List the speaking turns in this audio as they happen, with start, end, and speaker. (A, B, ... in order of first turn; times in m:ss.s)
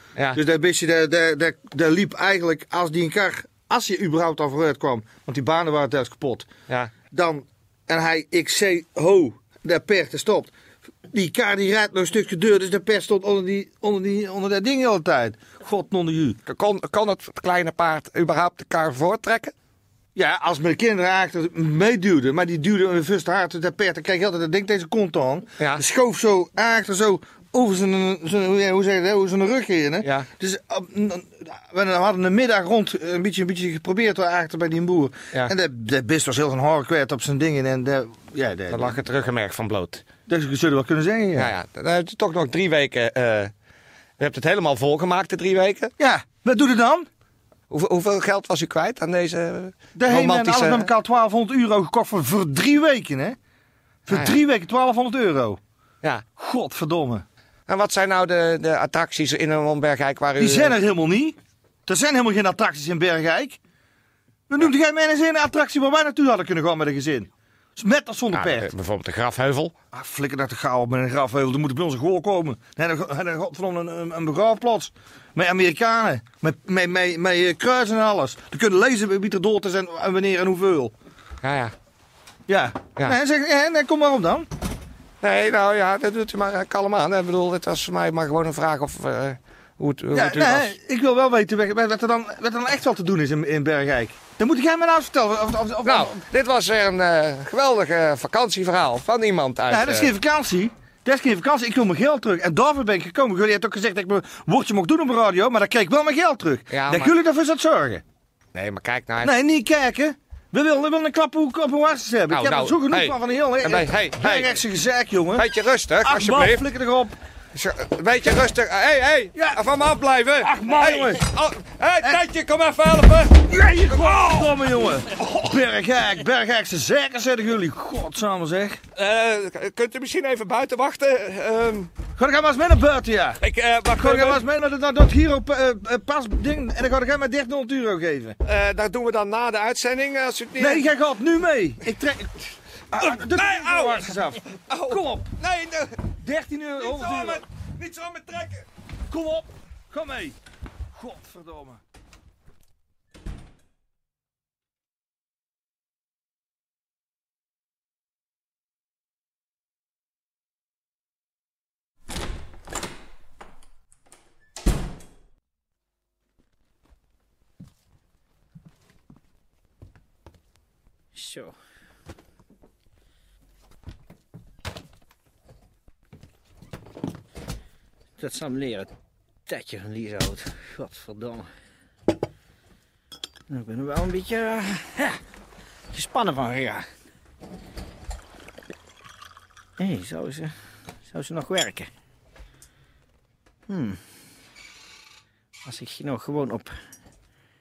0:00.4-0:06.5 A
0:07.1-0:10.5 A
0:11.1-0:16.4 A
0:16.5-0:19.5 B
0:20.2-0:39.0 A
0:30.0-0:30.3 B
0:38.7-0:40.0 B
0:40.3-0:41.5 A
0:41.4-0:43.5 B
0:44.2-0:45.9 B
0:46.0-0:47.1 A
0:47.7-0:50.9 B
0:50.0-0:53.4 A
0:54.1-0:55.6 A
0:54.1-0:54.4 B
0:56.4-0:57.3 A
0:57.7-1:00.8 B
1:00.4-1:03.6 A
1:04.5-1:08.7 A
1:08.3-1:09.7 B
1:09.9-1:20.9 A
1:21.4-1:21.7 B
1:22.5-1:24.5 A
1:25.2-1:30.7 B
1:30.1-1:36.1 A
1:35.8-1:40.1 B
1:39.7-1:48.0 A
1:46.7-1:47.1 B
1:48.5-1:49.3 B
1:49.2-1:55.5 A
1:52.3-1:54.6 B
1:55.4-1:56.6 B
1:56.0-1:57.2 A
1:57.5-2:04.5 B
1:59.4-1:59.6 A
2:00.4-2:01.2 A
2:03.5-2:08.8 A
2:09.0-2:11.9 B
2:12.2-2:13.4 A
2:13.4-2:14.4 B
2:13.9-2:18.4 A
2:18.4-2:20.9 B
2:20.6-2:25.3 A
2:23.0-2:24.1 B
2:24.7-2:26.0 B
2:26.2-2:27.4 A
2:26.8-2:28.7 B
2:29.1-2:30.4 A
2:30.9-2:31.8 A
2:51.2-2:51.6 C
2:58.2-2:58.9 C
2:59.5-3:01.5 C
3:03.5-3:05.2 C
3:05.9-3:06.9 C
3:09.8-3:10.5 C
3:11.1-3:11.9 C
3:13.7-3:14.0 C
3:15.6-3:16.7 C